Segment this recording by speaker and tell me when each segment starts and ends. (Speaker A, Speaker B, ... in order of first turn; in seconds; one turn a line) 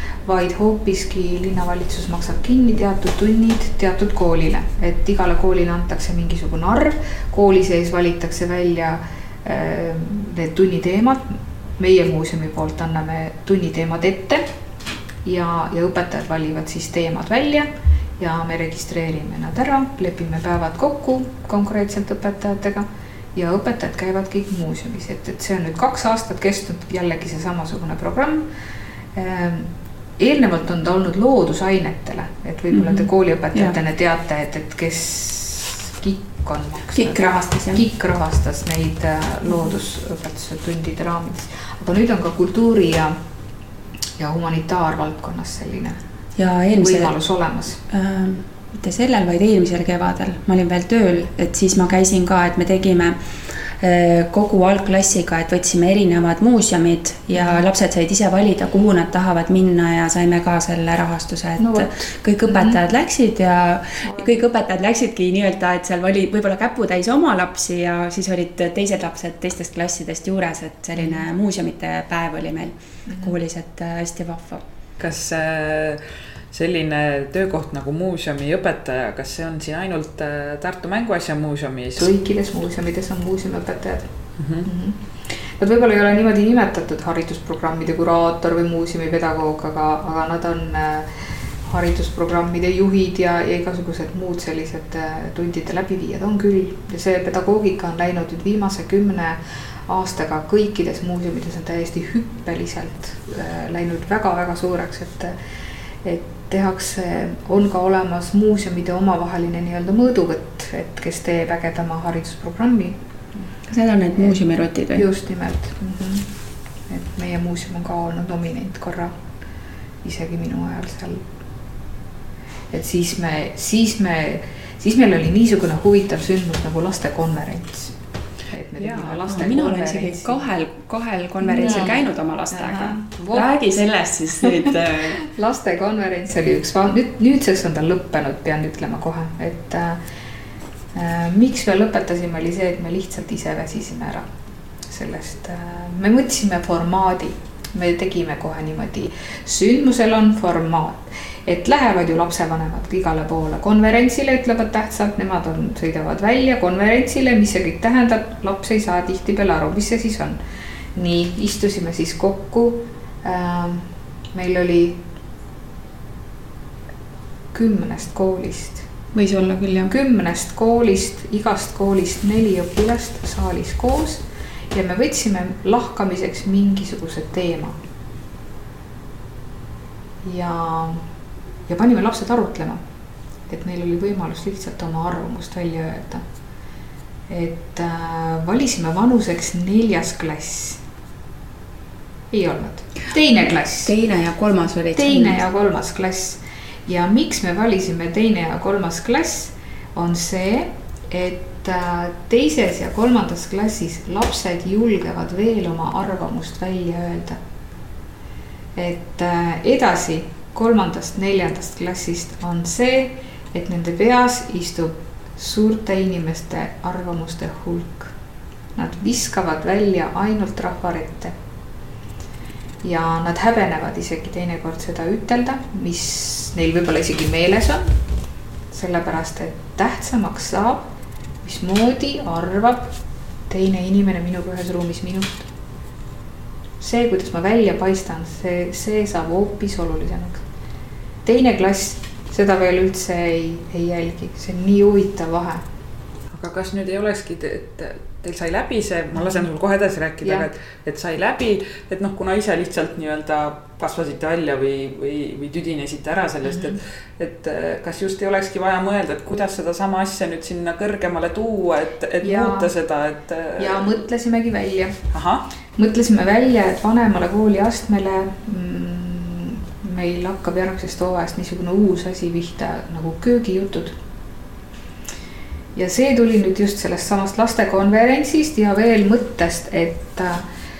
Speaker A: 0.2-14.4
Speaker A: 15.2-28.5
Speaker A: 29.1-43.1
Speaker B: 32.7-33.8
Speaker B: 36.9-37.8
Speaker A: 44.2-46.0
Speaker B: 46.4-47.1
Speaker A: 46.8-47.8
Speaker B: 47.9-53.2
Speaker B: 53.8-74.6
Speaker A: 57.3-57.6
Speaker A: 61.6-62.8
Speaker A: 71.0-71.2
Speaker A: 73.1-73.3
Speaker C: 75.0-82.1
Speaker A: 82.0-84.1
Speaker C: 84.4-84.7
Speaker A: 84.6-91.1
Speaker A: 91.6-105.4
Speaker A: 106.0-113.0
Speaker B: 113.7-115.1
Speaker A: 115.0-116.3
Speaker A: 116.9-119.1
Speaker A: 120.0-121.2
Speaker A: 122.7-128.0
Speaker A: 128.5-130.4
Speaker B: 128.8-135.2
Speaker A: 131.4-133.5
Speaker A: 134.4-140.0
Speaker A: 140.9-144.3
Speaker A: 144.9-160.4
Speaker A: 160.9-165.0
Speaker A: 167.5-168.8
Speaker B: 169.1-169.9
Speaker A: 169.9-177.8
Speaker A: 180.2-181.1
Speaker A: 181.7-182.8
Speaker A: 183.5-186.2
Speaker A: 187.3-190.8
Speaker A: 192.3-193.9
Speaker B: 193.8-195.4
Speaker A: 194.9-207.4
Speaker A: 208.8-218.1
Speaker A: 218.8-221.3
Speaker A: 222.8-227.9
Speaker A: 228.7-230.9
Speaker A: 231.4-232.9
Speaker A: 233.5-235.5
Speaker A: 236.8-240.4
Speaker A: 241.2-245.6
Speaker C: 246.3-264.0
Speaker A: 249.1-249.5
Speaker A: 250.2-250.5
Speaker A: 256.4-256.8
Speaker A: 262.2-262.7
Speaker A: 263.6-264.9
Speaker C: 265.1-265.4
Speaker A: 265.8-274.0
Speaker A: 275.7-280.4